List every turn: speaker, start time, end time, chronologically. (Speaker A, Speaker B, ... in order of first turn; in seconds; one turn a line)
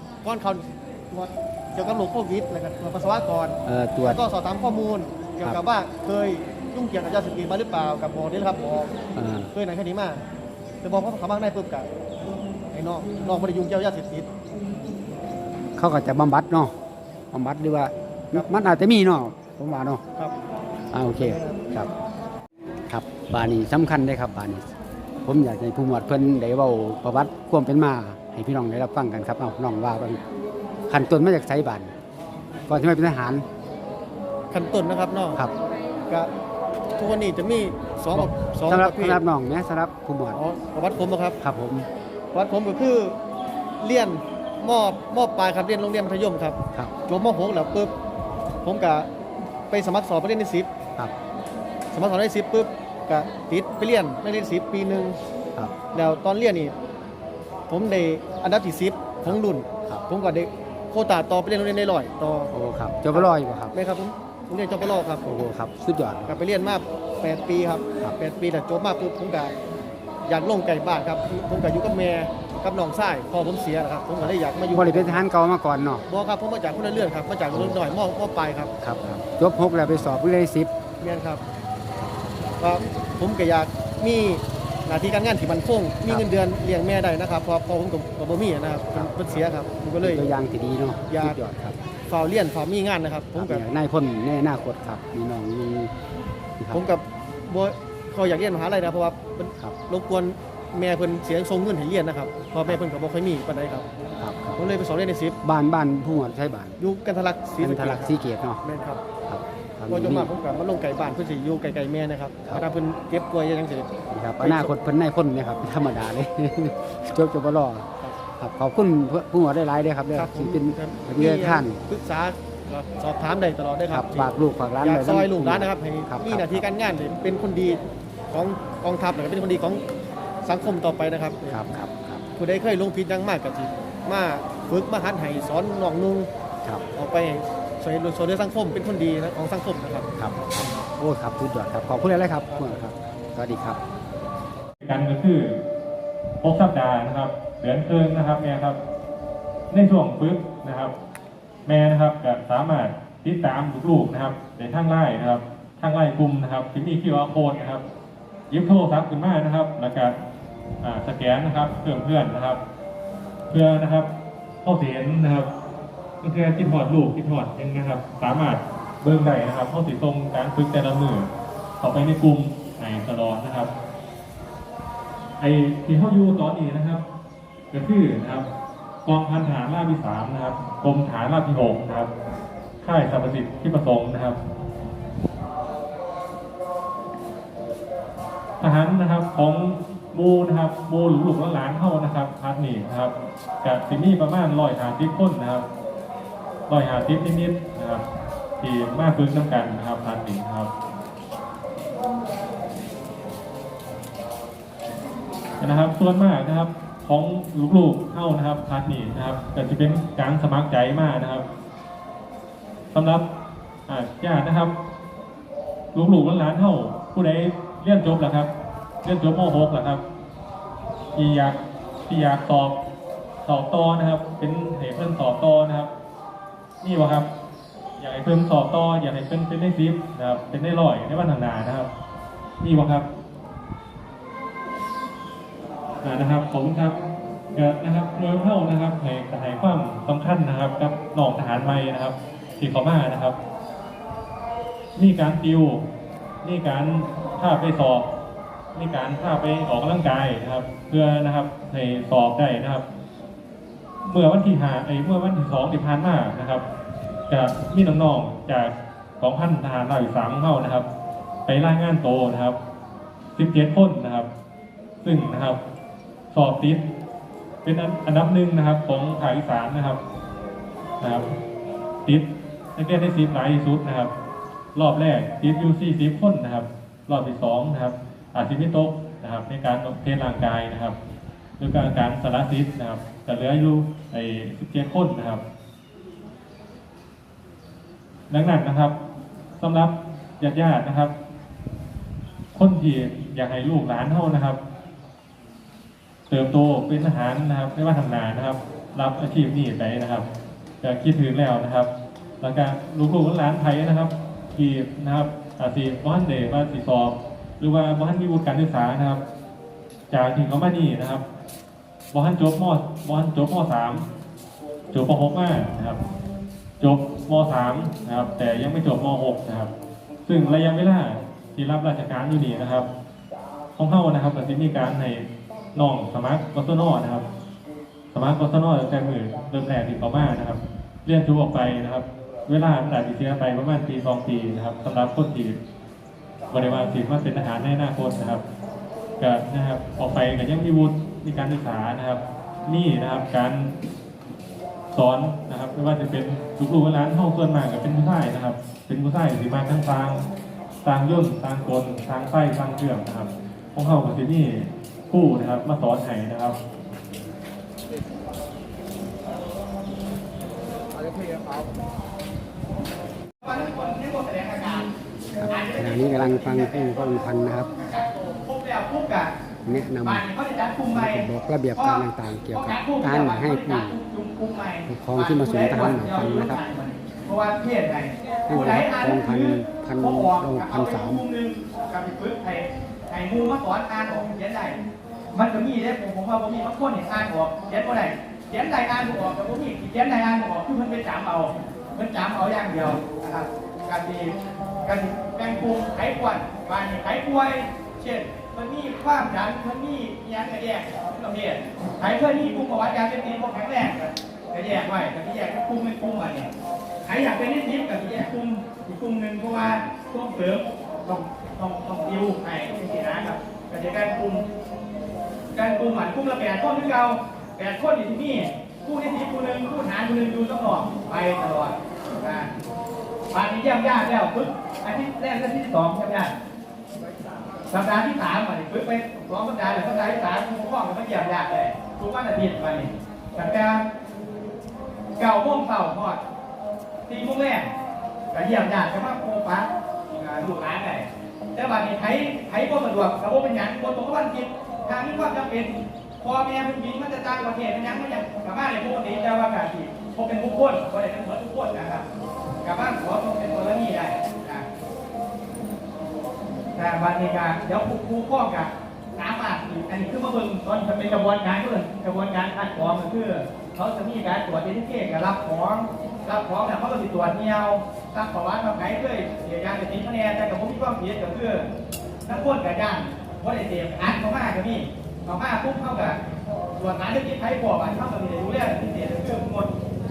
Speaker A: 0.2-8.9
Speaker B: 3.7-4.2
Speaker B: 9.2-9.5
Speaker A: 9.5-10.2
Speaker A: 10.8-11.9
Speaker A: 12.7-14.3
Speaker B: 15.8-16.7
Speaker B: 17.3-20.0
Speaker B: 20.9-21.9
Speaker A: 21.2-21.6
Speaker B: 22.9-24.7
Speaker B: 25.2-30.2
Speaker B: 30.9-31.9
Speaker B: 32.7-33.5
Speaker A: 34.5-35.4
Speaker A: 37.0-39.2
Speaker B: 38.1-40.4
Speaker A: 40.3-41.4
Speaker B: 41.4-41.9
Speaker A: 42.3-43.2
Speaker A: 43.8-46.6
Speaker A: 47.1-47.9
Speaker A: 48.6-49.1
Speaker A: 49.7-50.7
Speaker A: 51.9-55.2
Speaker A: 55.9-56.8
Speaker A: 57.7-62.5
Speaker B: 59.2-60.0
Speaker B: 62.5-63.8
Speaker A: 63.1-65.3
Speaker B: 65.2-66.4
Speaker A: 66.3-69.6
Speaker A: 70.3-75.2
Speaker B: 74.2-76.0
Speaker A: 76.1-78.7
Speaker B: 77.5-77.8
Speaker B: 78.8-80.7
Speaker A: 81.0-81.4
Speaker A: 82.6-90.2
Speaker B: 88.9-89.5
Speaker B: 90.0-91.8
Speaker A: 91.1-91.4
Speaker A: 92.1-93.6
Speaker B: 93.4-95.9
Speaker B: 96.6-96.8
Speaker A: 96.7-103.9
Speaker B: 104.2-104.6
Speaker A: 104.6-105.4
Speaker B: 105.4-106.8
Speaker A: 106.8-109.0
Speaker B: 107.6-108.6
Speaker B: 109.3-110.3
Speaker A: 109.9-113.9
Speaker B: 114.1-117.9
Speaker A: 114.4-114.7
Speaker B: 118.4-121.8
Speaker A: 120.1-124.3
Speaker B: 123.9-126.6
Speaker A: 124.8-127.8
Speaker A: 128.3-129.8
Speaker A: 130.4-131.6
Speaker B: 131.5-132.2
Speaker A: 132.4-136.3
Speaker A: 137.0-140.1
Speaker B: 140.2-143.8
Speaker C: 144.8-145.6
Speaker C: 146.4-148.8
Speaker C: 149.7-150.9
Speaker C: 151.7-157.8
Speaker C: 158.5-160.2
Speaker C: 160.8-162.6
Speaker C: 163.5-164.1
Speaker C: 164.6-165.5
Speaker C: 166.2-171.3
Speaker C: 171.8-173.7
Speaker C: 175.4-177.0
Speaker C: 177.7-178.4
Speaker C: 179.1-182.1
Speaker C: 182.8-184.4
Speaker C: 188.6-193.1
Speaker C: 193.6-195.7
Speaker C: 196.7-198.0
Speaker C: 198.6-200.7
Speaker C: 205.6-211.4
Speaker C: 212.9-213.2
Speaker C: 213.9-214.7
Speaker C: 215.9-218.5
Speaker C: 219.0-220.0
Speaker C: 221.2-221.6
Speaker C: 222.1-222.8
Speaker C: 223.4-225.9
Speaker C: 226.8-227.3
Speaker C: 228.0-231.9
Speaker C: 232.6-233.1
Speaker C: 236.0-237.0
Speaker C: 237.6-243.4
Speaker C: 245.0-245.8
Speaker C: 246.4-248.1
Speaker C: 248.8-252.8
Speaker C: 254.1-256.6
Speaker C: 257.3-260.9
Speaker C: 261.5-262.6
Speaker C: 263.4-264.3
Speaker C: 265.0-265.6
Speaker C: 266.3-266.8
Speaker C: 267.6-270.0
Speaker C: 271.0-271.3
Speaker C: 272.8-274.1
Speaker C: 274.8-280.9
Speaker C: 281.6-285.4
Speaker C: 288.3-288.9
Speaker C: 289.6-291.1
Speaker C: 292.5-294.6
Speaker C: 296.3-300.2
Speaker C: 300.8-301.9
Speaker C: 302.4-309.2
Speaker C: 310.1-311.2
Speaker C: 312.1-314.1
Speaker C: 314.9-316.0
Speaker C: 316.8-319.7
Speaker C: 320.3-322.9
Speaker C: 323.8-327.2
Speaker C: 328.1-335.6
Speaker C: 336.5-338.4
Speaker C: 339.2-343.7
Speaker C: 344.9-350.2
Speaker C: 350.8-356.6
Speaker D: 363.4-364.9
Speaker B: 365.4-367.7
Speaker D: 365.5-369.3
Speaker B: 369.7-370.2
Speaker D: 370.0-384.8
Speaker B: 370.9-374.0
Speaker B: 374.9-376.6
Speaker B: 378.5-381.2
Speaker D: 385.3-394.3
Speaker D: 394.9-406.5
Speaker D: 407.1-414.4
Speaker D: 415.5-422.5
Speaker D: 423.3-426.3
Speaker D: 427.7-433.8
Speaker D: 435.2-436.2
Speaker D: 437.1-437.7
Speaker D: 438.3-452.1
Speaker D: 452.6-454.6
Speaker D: 456.8-471.6
Speaker D: 472.3-476.2
Speaker D: 476.8-479.7